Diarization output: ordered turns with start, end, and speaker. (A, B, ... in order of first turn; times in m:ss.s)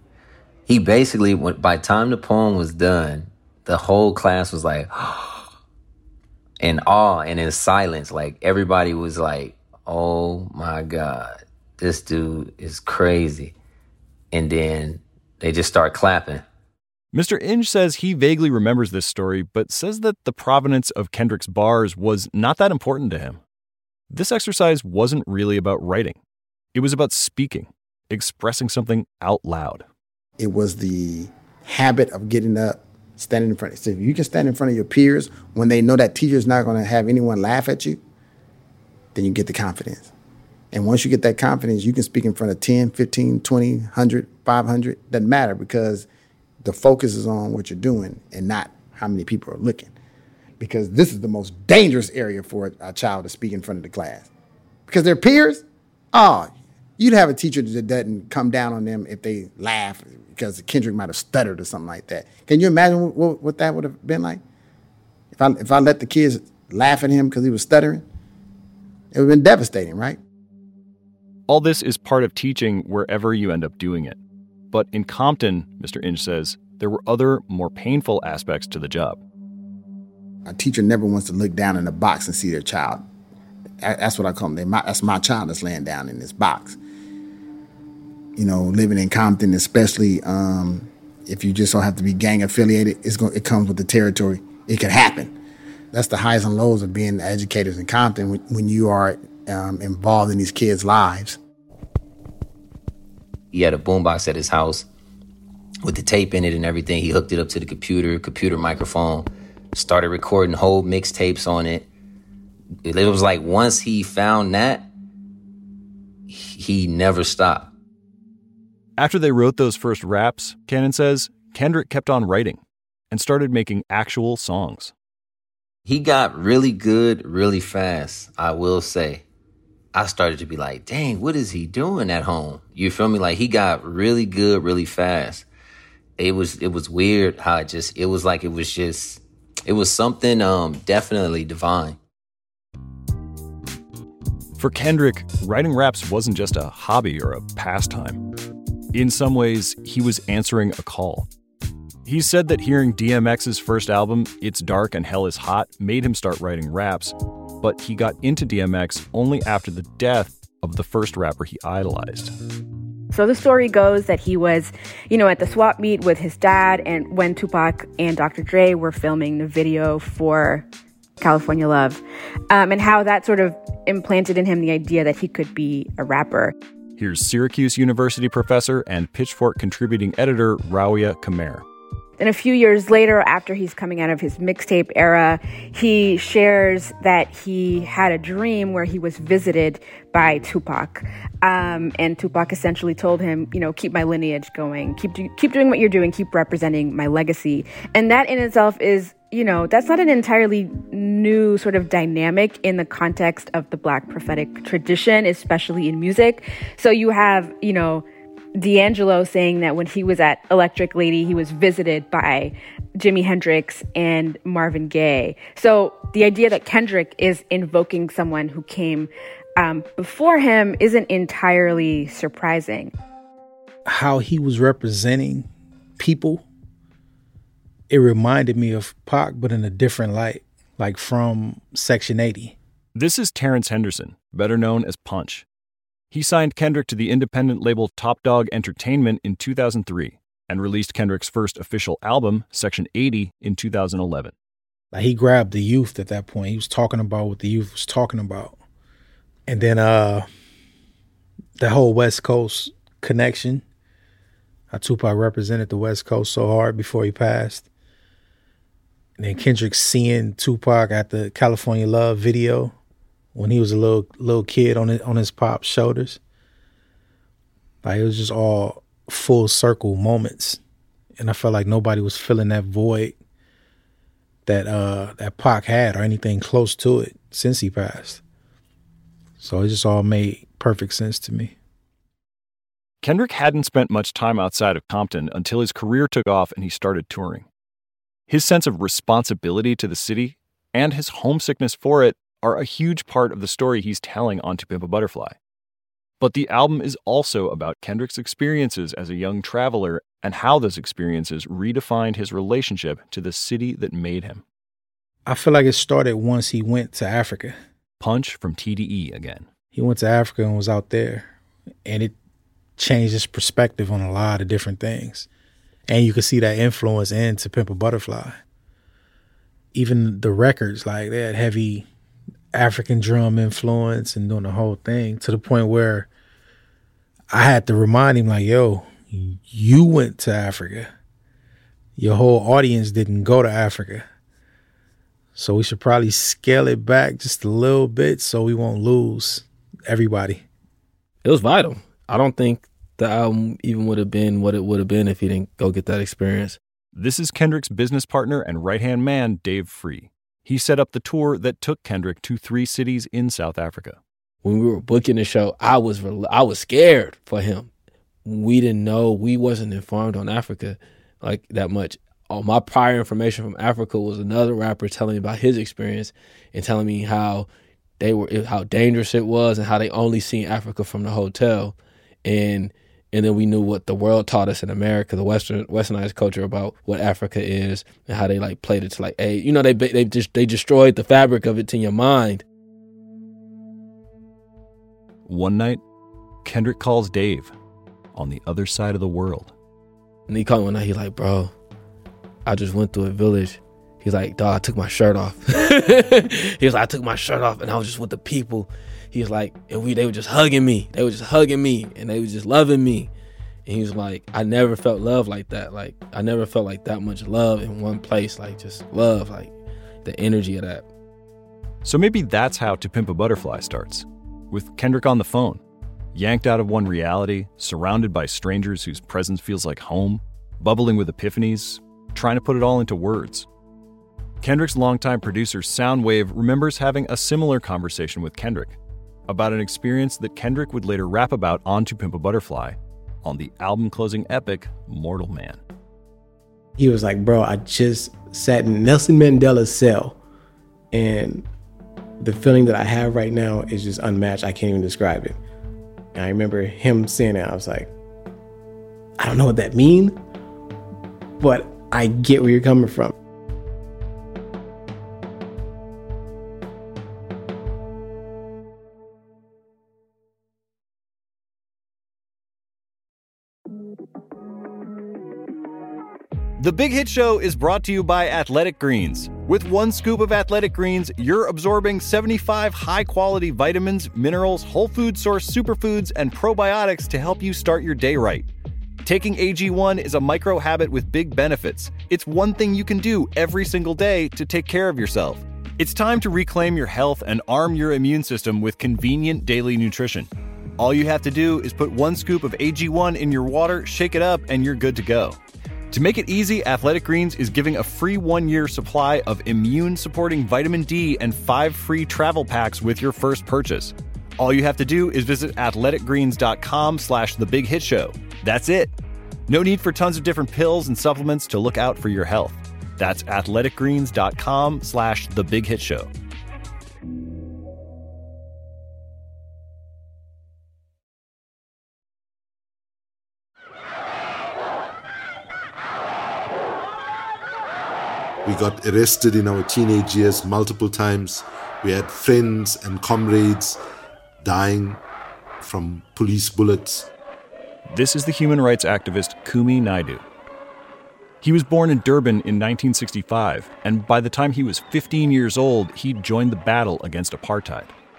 0:00.7-0:05.4 A
0:06.6-0:13.5 A
0:14.3-0:16.4 A
0:17.1-0:23.4 B
0:24.1-0:26.2 B
0:26.7-0:29.8 B
0:30.4-0:38.0 C
0:39.1-0:40.1 C
0:40.7-0:46.1 C
0:46.6-0:49.9 C
0:50.6-0:54.3 C
0:54.9-1:04.4 C
1:05.3-1:08.0 C
1:09.1-1:10.2 C
1:11.5-1:14.2 B
1:14.7-1:19.2 B
1:20.4-1:23.0 C
1:23.8-1:26.8 C
1:28.4-1:35.3 C
1:35.9-1:41.4 C
1:43.5-1:44.8 A
1:45.8-1:51.9 A
1:52.8-1:54.9 A
1:56.3-1:57.7 A
1:59.0-2:04.9 B
2:05.8-2:09.2 A
2:09.9-2:15.4 A
2:16.2-2:22.0 A
2:24.6-2:28.2 B
2:28.9-2:31.3 B
2:32.0-2:42.3 B
2:43.1-2:50.6 D
2:51.2-2:56.5 D
2:57.0-3:01.6 B
3:02.2-3:28.0 D
3:28.6-3:42.9 D
3:43.8-3:46.4 E
3:47.9-3:52.6 E
3:52.9-3:55.4 B
3:56.1-4:04.3 B
4:04.9-4:08.6 E
4:09.5-4:10.3 E
4:11.6-4:13.6 E
4:14.7-4:17.7 E
4:19.2-4:22.7 E
4:23.3-4:26.2 E
4:27.8-4:30.6 E
4:31.2-4:33.2 E
4:34.4-4:38.2 E
4:39.4-4:41.5 E
4:43.0-4:47.5 B
4:48.3-4:55.4 B
4:56.2-5:04.4 B
5:05.3-5:07.6 E
5:08.0-5:09.5 B
5:09.7-5:11.3 E
5:11.8-5:12.1 E
5:12.8-5:15.3 E
5:15.9-5:18.4 E
5:19.7-5:21.9 E
5:22.5-5:26.1 E
5:27.3-5:30.9 E
5:32.0-5:34.0 E
5:35.4-5:40.4 E
5:41.2-5:46.6 F
5:46.9-5:54.0 B
5:54.4-5:57.7 F
5:58.2-6:07.5 F
6:08.0-6:22.4 F
6:25.2-6:25.8 B
6:26.4-6:27.5 B
6:28.1-6:29.5 B
6:30.3-6:31.5 F
6:32.4-6:43.1 F
6:43.6-6:50.8 F
6:51.8-6:55.6 B
6:56.1-7:03.5 B
7:04.4-7:15.6 B
7:16.8-7:20.2 G
7:20.9-7:21.4 G
7:22.2-7:25.4 G
7:26.1-7:27.9 G
7:29.2-7:30.2 G
7:31.4-7:33.1 G
7:46.6-7:58.5 B
7:59.0-8:15.4 B
8:15.9-8:28.9 B
8:29.5-8:36.1 B
8:48.4-8:53.8 H
8:54.4-8:55.0 H
8:55.6-8:57.1 H
8:57.8-9:00.2 B
9:01.4-9:07.9 B